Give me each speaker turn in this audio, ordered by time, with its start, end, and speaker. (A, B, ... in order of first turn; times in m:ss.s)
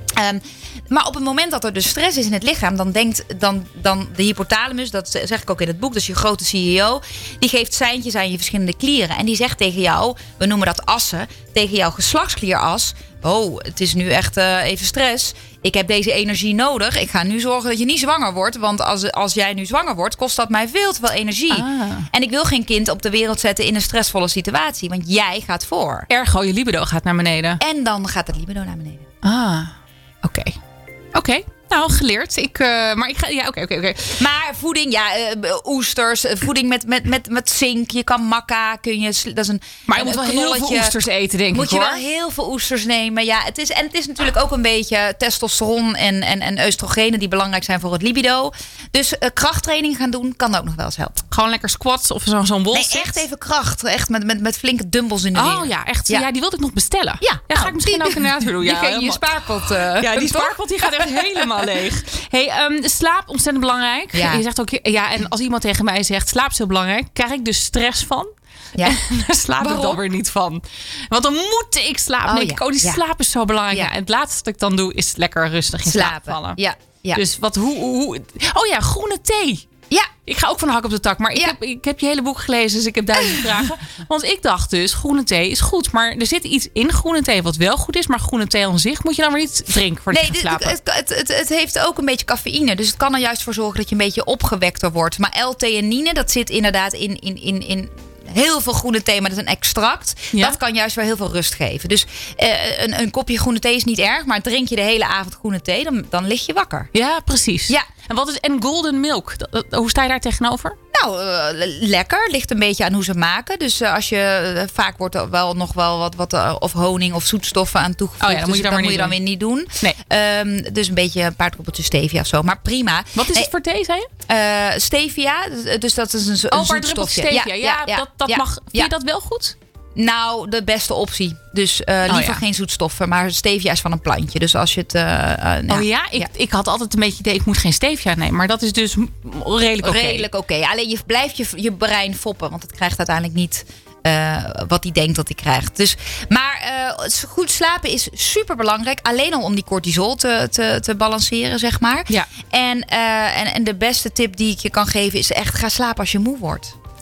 0:00.2-0:26.1 A
0:21.5-0:22.1 B
0:26.1-0:27.6 B
0:27.6-0:29.1 A
0:29.2-0:30.6 B
0:31.1-0:34.2 B
0:34.2-0:40.9 A
0:39.9-0:42.0 B
0:41.5-0:51.2 A
0:51.3-0:53.2 B
0:52.7-0:56.3 A
0:55.4-0:59.3 B
0:57.2-1:01.5 A
1:00.0-1:16.6 B
1:04.1-1:04.4 A
1:08.8-1:10.0 A
1:12.3-1:13.0 A
1:15.9-1:17.2 A
1:17.1-1:19.7 B
1:20.2-1:30.8 B
1:23.2-1:23.6 A
1:30.1-1:46.9 A
1:46.9-1:50.8 B
1:50.9-2:03.5 A
1:58.2-1:59.2 B
2:03.2-2:04.1 B
2:04.3-2:08.9 A
2:06.5-2:09.6 B
2:10.0-2:16.3 A
2:12.1-2:12.4 B
2:15.7-2:20.3 B
2:19.8-2:36.7 A